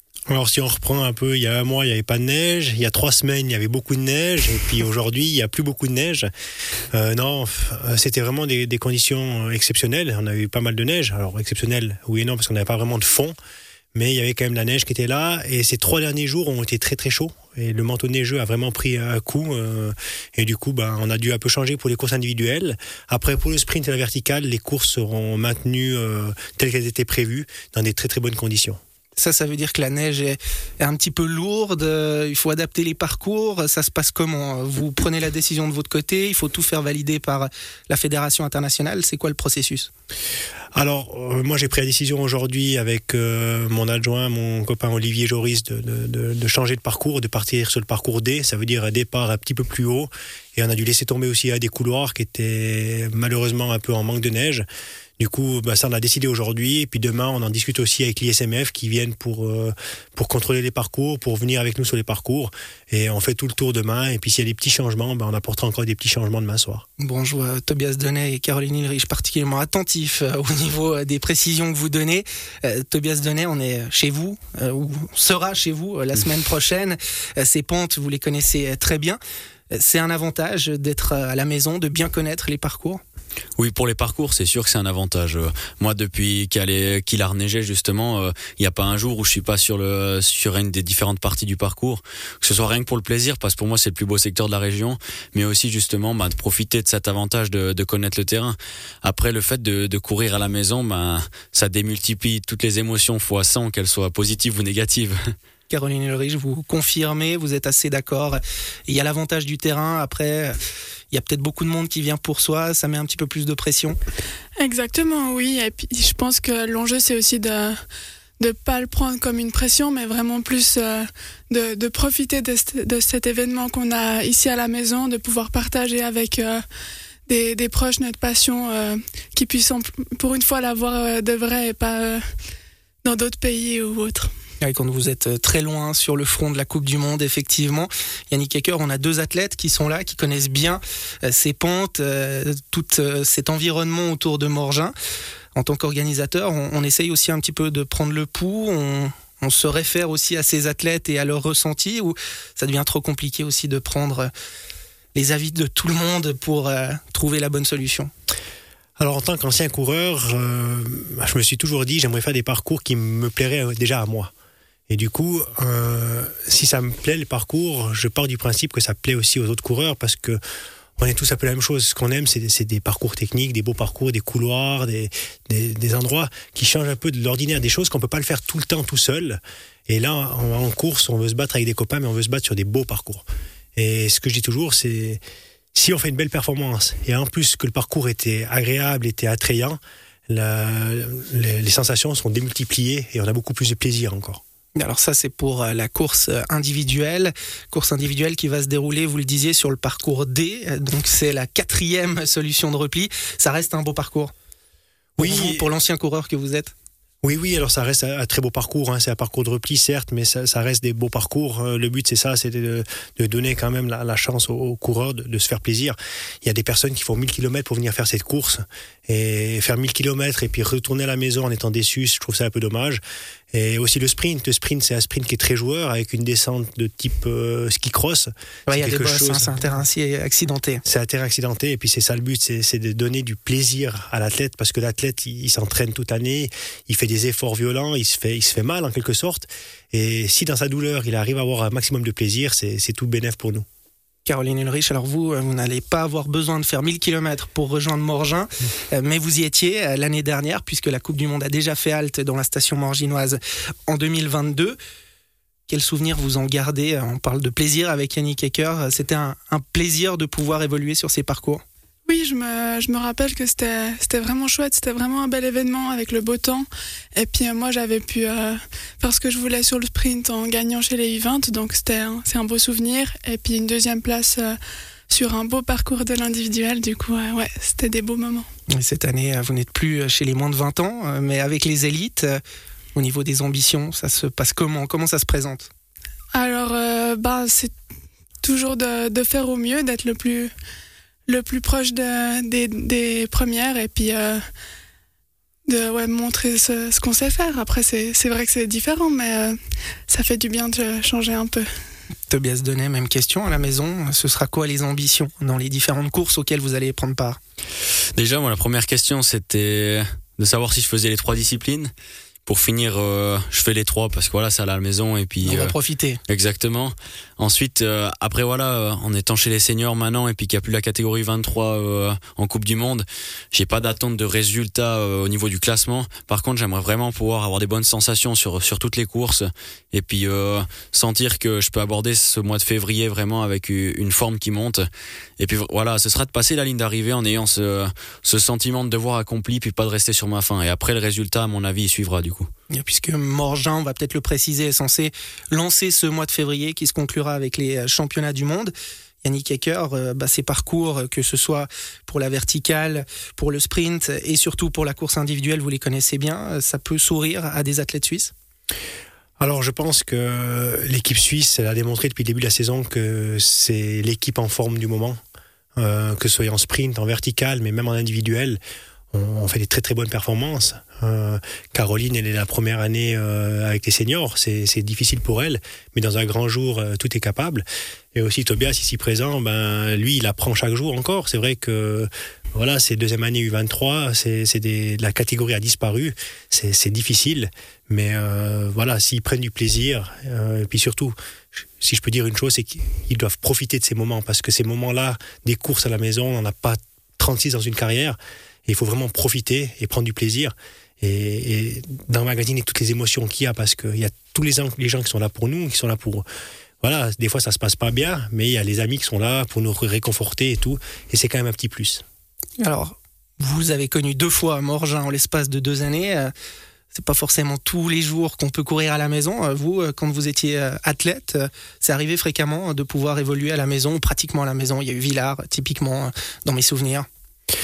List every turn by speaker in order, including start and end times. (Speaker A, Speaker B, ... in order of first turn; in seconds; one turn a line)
Speaker A: 0.3-6.3
Speaker A: 6.9-13.3
Speaker A: 13.9-28.8
Speaker B: 29.2-39.9
Speaker A: 40.7-54.6
Speaker A: 55.2-66.8
Speaker B: 67.0-79.2
Speaker B: 79.7-83.0
Speaker C: 83.6-105.2
Speaker B: 105.7-110.6
Speaker B: 111.1-114.0
Speaker D: 114.6-117.8
Speaker D: 118.4-126.6
Speaker D: 127.3-132.2
Speaker D: 133.0-134.3
Speaker B: 134.6-144.9
Speaker B: 145.5-154.3
Speaker B: 155.1-158.1
Speaker A: 159.0-164.3
Speaker A: 164.9-170.4
Speaker A: 171.0-183.2
Speaker A: 183.8-185.2
Speaker A: 185.8-194.4
Speaker B: 194.7-204.3
Speaker B: 205.2-206.7
Speaker A: 205.2-205.7
Speaker A: 207.2-223.0
Speaker A: 223.5-229.6
Speaker B: 228.7-230.8
Speaker A: 230.8-243.6
Speaker B: 244.2-254.8
Speaker B: 255.7-261.6
Speaker D: 262.1-274.6
Speaker D: 275.1-278.5
Speaker B: 278.7-282.4
Speaker B: 282.9-285.7
Speaker D: 286.3-287.7
Speaker D: 288.4-290.5
Speaker D: 291.3-294.4
Speaker D: 295.7-299.6
Speaker D: 300.1-301.6
Speaker B: 302.3-307.4
Speaker C: 308.1-311.9
Speaker C: 312.4-315.7
Speaker B: 315.4-316.2
Speaker C: 316.3-334.8
Speaker C: 335.4-342.5
Speaker B: 342.7-358.3
Speaker A: 359.4-365.2
Speaker A: 365.8-368.6
Speaker A: 369.1-391.1
Speaker A: 391.8-406.2
Speaker A: 406.8-412.0
Speaker B: 412.6-416.3
Speaker B: 416.9-427.1